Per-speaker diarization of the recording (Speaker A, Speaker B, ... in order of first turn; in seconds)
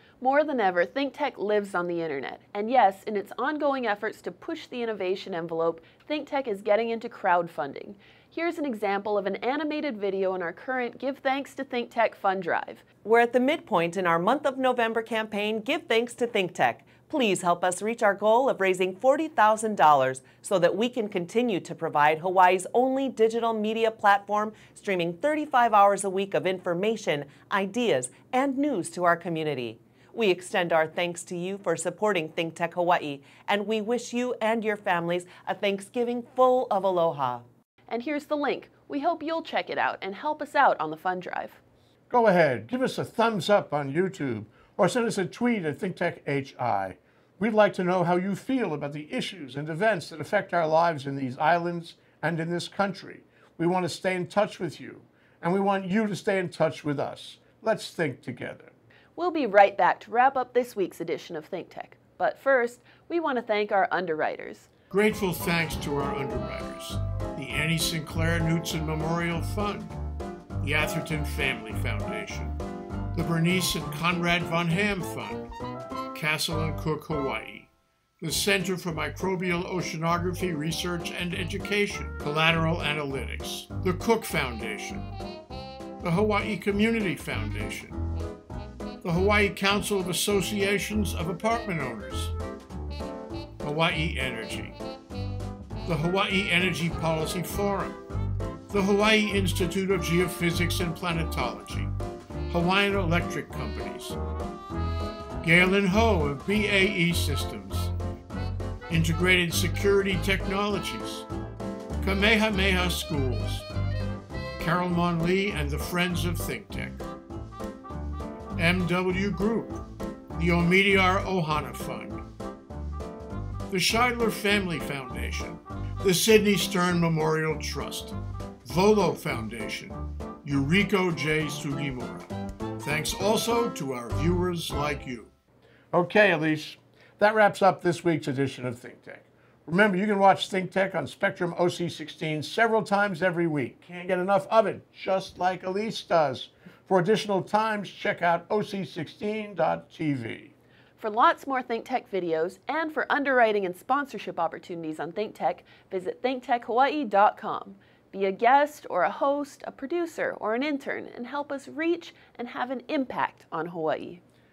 Speaker A: 0.2-12.9, 37.9-41.6, 59.2-64.7, 151.0-164.2
Speaker B: 13.0-37.5
Speaker C: 42.1-58.7, 64.9-69.9, 70.6-72.6, 73.2-75.5, 76.1-77.7, 78.2-85.1, 86.0-88.0, 89.0-92.3, 93.6-94.8, 95.9-98.0, 98.7-101.9, 102.5-104.2, 105.4-107.9, 108.9-111.3, 112.0-113.7, 114.6-117.0, 118.6-119.8, 120.4-122.2, 123.7-135.3, 135.9-150.5